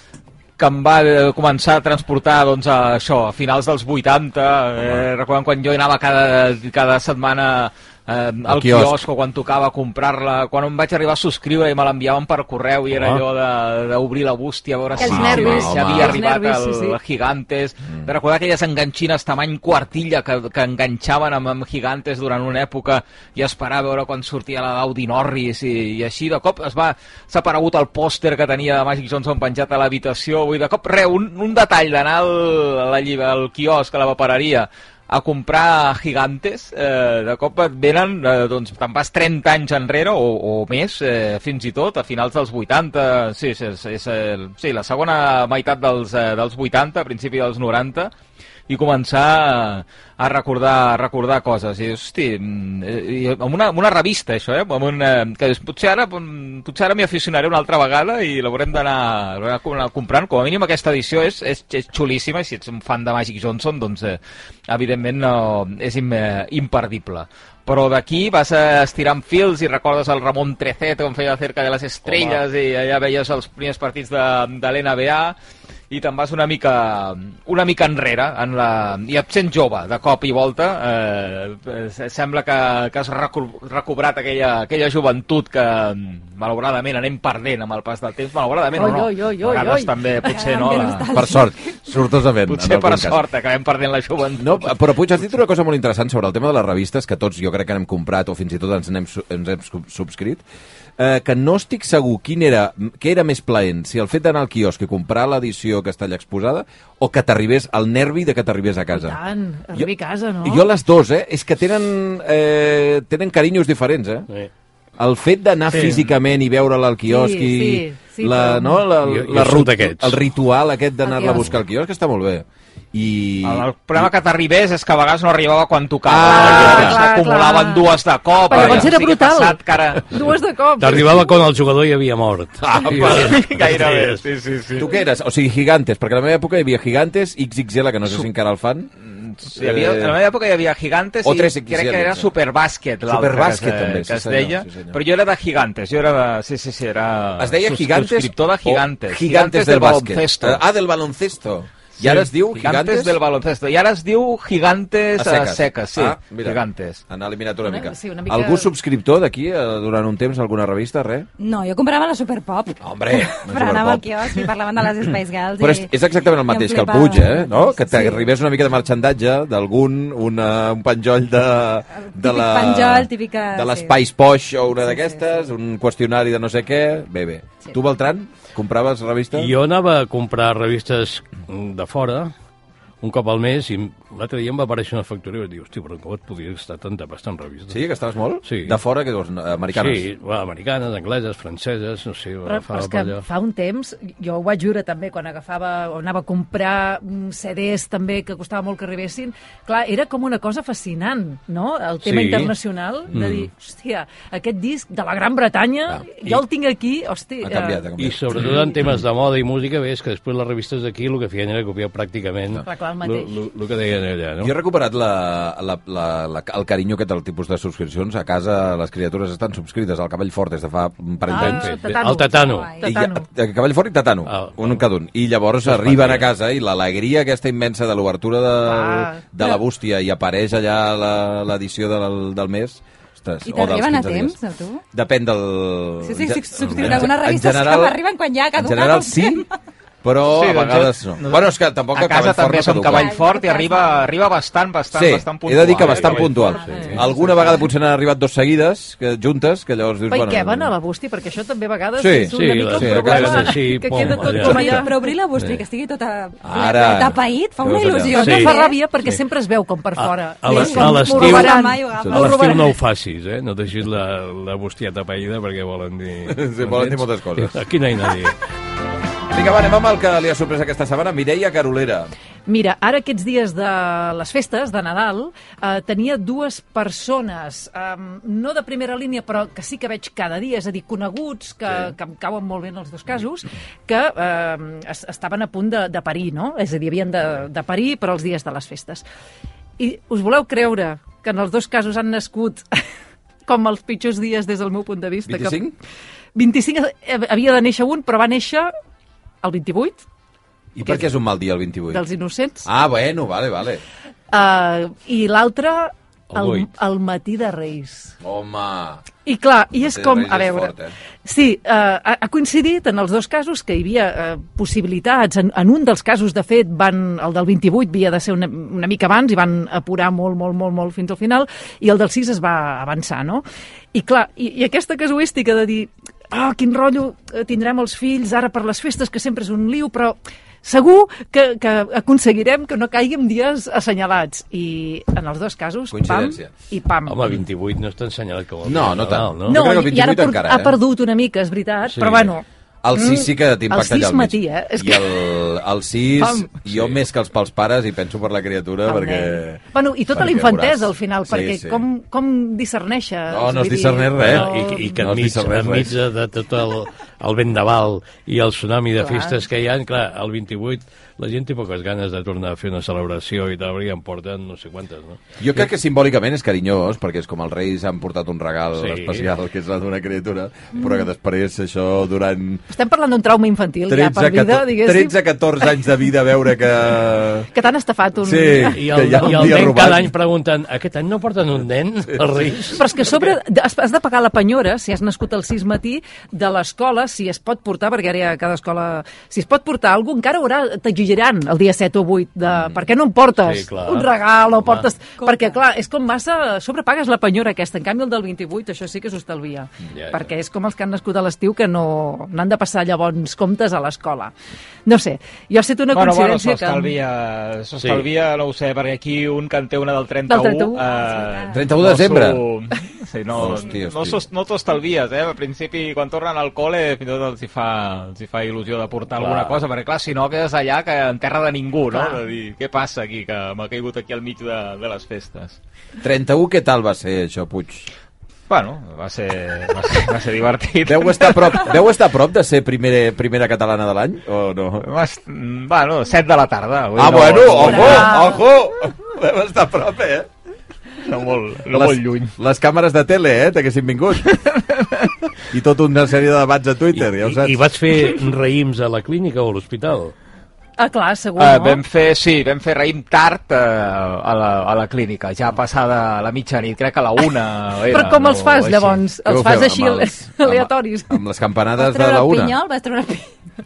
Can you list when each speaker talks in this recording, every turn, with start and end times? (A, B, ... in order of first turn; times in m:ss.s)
0:00.6-0:48.1 A
0:08.5-0:09.0 B
0:12.9-0:13.2 C
0:15.0-0:16.2 B
0:15.0-0:17.0 D
0:48.7-1:15.4 A
1:12.1-1:12.4 C
1:15.9-1:31.2 A
1:28.8-1:29.9 D
1:30.2-1:31.8 E
1:31.1-1:33.2 B
1:32.5-1:34.8 A
1:34.4-1:40.4 B
1:41.0-1:49.2 B
1:48.9-1:50.6 D
1:50.4-1:54.3 B
1:55.0-2:04.1 B
1:55.7-1:56.1 A
1:57.1-1:58.8 D
1:59.0-2:00.2 C
2:01.0-2:01.5 D
2:03.4-2:10.0 A
2:06.1-2:07.0 B
2:06.2-2:07.9 D
2:08.5-2:11.2 D
2:08.5-2:08.9 B
2:10.8-2:14.2 C
2:12.6-2:13.4 B
2:12.9-2:14.9 A
2:14.8-2:18.9 B
2:19.0-2:30.6 A
2:19.5-2:20.2 B
2:21.2-2:22.3 B
2:23.0-2:25.0 B
2:27.4-2:33.2 B
2:32.0-2:37.0 A
2:35.2-2:41.3 B
2:37.7-2:38.7 D
2:41.4-2:48.2 E
2:42.8-2:44.5 B
2:45.6-2:59.5 B
2:52.0-2:54.0 E
2:54.9-2:55.2 E
2:59.4-3:02.3 C
3:03.0-3:07.8 C
3:07.7-3:10.1 B
3:08.4-3:08.8 C
3:09.7-3:13.2 C
3:12.4-3:27.8 D
3:22.0-3:22.5 C
3:23.1-3:23.5 C
3:27.4-3:28.7 B
3:28.0-3:34.5 C
3:32.6-3:33.3 D
3:34.4-3:41.8 B
3:41.3-3:43.3 D
3:41.3-3:42.7 C
3:42.5-3:42.9 E
3:42.8-3:54.4 B
3:44.3-3:44.8 C
3:45.6-3:46.3 C
3:48.6-3:49.2 D
3:53.4-3:54.8 E
3:54.9-3:58.0 B
3:56.0-3:59.5 E
3:56.6-3:57.1 C
3:58.6-3:59.5 B
4:00.0-4:03.2 B
4:00.3-4:06.6 A
4:02.8-4:04.1 E
4:04.9-4:10.7 B
4:05.8-4:07.1 C
4:06.3-4:07.4 E
4:10.1-4:15.1 D
4:12.0-4:13.6 B
4:12.3-4:15.6 C
4:14.3-4:18.8 E
4:16.4-4:18.2 B
4:18.1-4:22.7 D
4:18.2-4:18.5 C
4:20.0-4:28.4 C
4:20.5-4:22.7 E
4:26.3-4:27.6 B
4:29.3-4:32.1 B
4:32.5-4:49.0 D
4:49.8-4:52.6 D
4:53.5-4:55.6 D
4:55.3-4:55.8 B
4:56.4-4:58.7 D
4:59.4-5:00.0 D
5:00.8-5:02.0 B
5:01.9-5:02.7 D
5:02.6-5:03.8 B
5:04.3-5:08.1 D
5:06.3-5:06.7 C
5:08.2-5:09.0 B
5:09.3-5:10.7 D
5:09.7-5:10.9 B
5:11.2-5:37.2 D
5:35.9-5:36.5 B
5:37.1-5:39.6 C
5:38.6-5:40.8 B
5:39.5-5:45.2 D
5:41.9-5:42.3 C
5:42.8-5:51.8 B
5:46.2-5:46.6 D
5:48.8-5:55.0 D
5:53.3-5:56.0 B
5:54.2-6:05.2 C
5:59.0-5:59.4 D
6:05.4-6:12.6 B
6:08.8-6:09.3 C
6:12.7-6:15.2 D
6:13.9-6:17.5 B
6:17.5-6:19.6 D
6:18.2-6:20.1 B
6:18.6-6:22.8 C
6:22.8-6:44.3 D
6:33.4-6:34.9 C
6:35.2-6:35.6 E
6:39.9-6:40.3 C
6:44.9-6:46.9 D
6:45.9-7:05.6 A
6:47.8-6:48.1 C
6:50.3-6:50.8 D
6:50.8-6:51.8 E
6:51.5-6:52.4 B
6:53.3-6:54.3 B
6:59.2-6:59.6 C
7:06.0-7:07.9 B
7:08.5-7:11.7 A
7:10.8-7:14.9 B
7:14.8-7:18.3 A
7:17.0-7:20.3 B
7:17.7-7:18.4 D
7:21.0-7:22.3 A
7:21.7-7:24.3 B
7:24.3-7:25.1 A
7:25.5-7:27.6 B
7:27.0-7:30.2 C
7:30.8-7:31.8 D
7:31.4-7:39.0 A
7:37.9-7:41.2 D
7:39.2-7:42.6 B
7:41.8-7:43.3 E